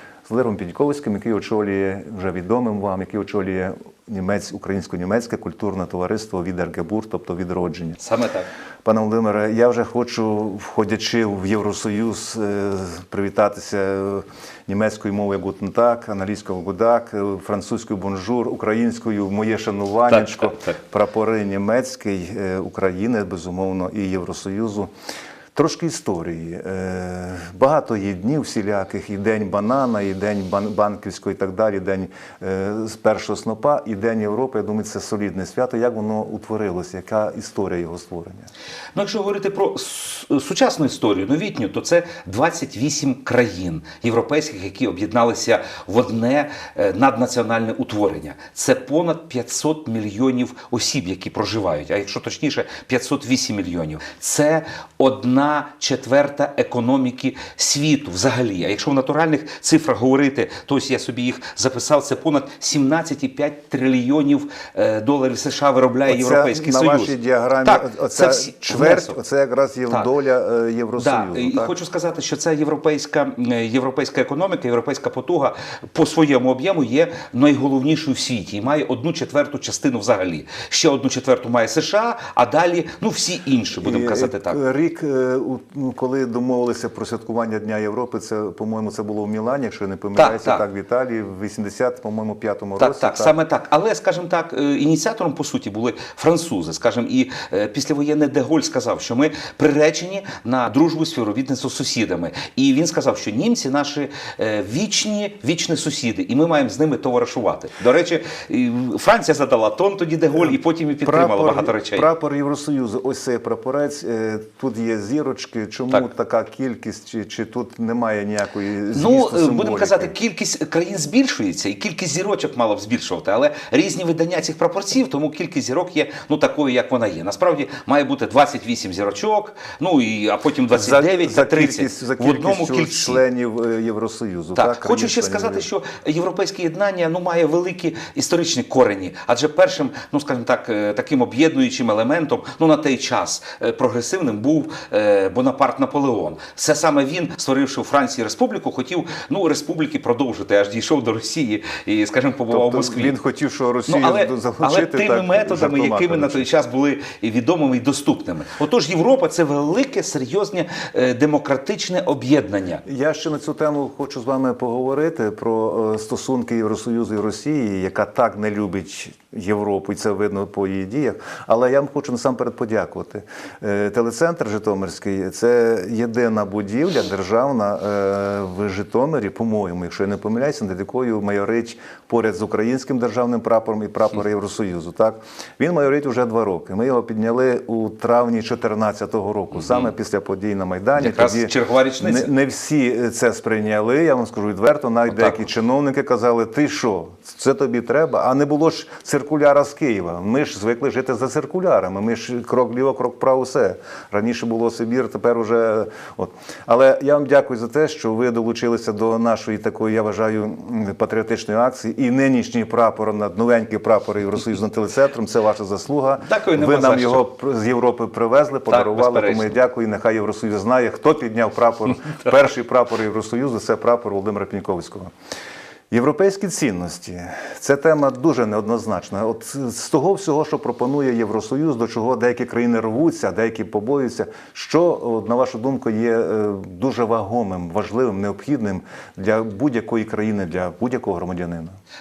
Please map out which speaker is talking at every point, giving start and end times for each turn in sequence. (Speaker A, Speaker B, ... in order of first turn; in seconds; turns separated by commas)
Speaker A: 0.3-8.0, Speaker B: 8.0-8.5, Speaker A: 8.8-24.9, Speaker B: 20.1-20.8, Speaker A: 25.5-38.5, Speaker B: 38.9-67.1, Speaker A: 66.0-71.7, Speaker B: 67.6-69.2, Speaker B: 71.0-84.6, Speaker A: 83.8-93.3, Speaker B: 90.2-90.6, Speaker B: 92.8-112.1, Speaker A: 110.4-120.1, Speaker B: 118.9-133.2, Speaker A: 130.7-135.7, Speaker B: 134.5-153.1, Speaker A: 152.5-156.5, Speaker B: 153.9-162.8, Speaker A: 162.8-225.1, Speaker B: 189.5-189.9, Speaker B: 191.0-192.3, Speaker B: 216.2-217.2, Speaker B: 218.7-219.6, Speaker A: 225.9-241.8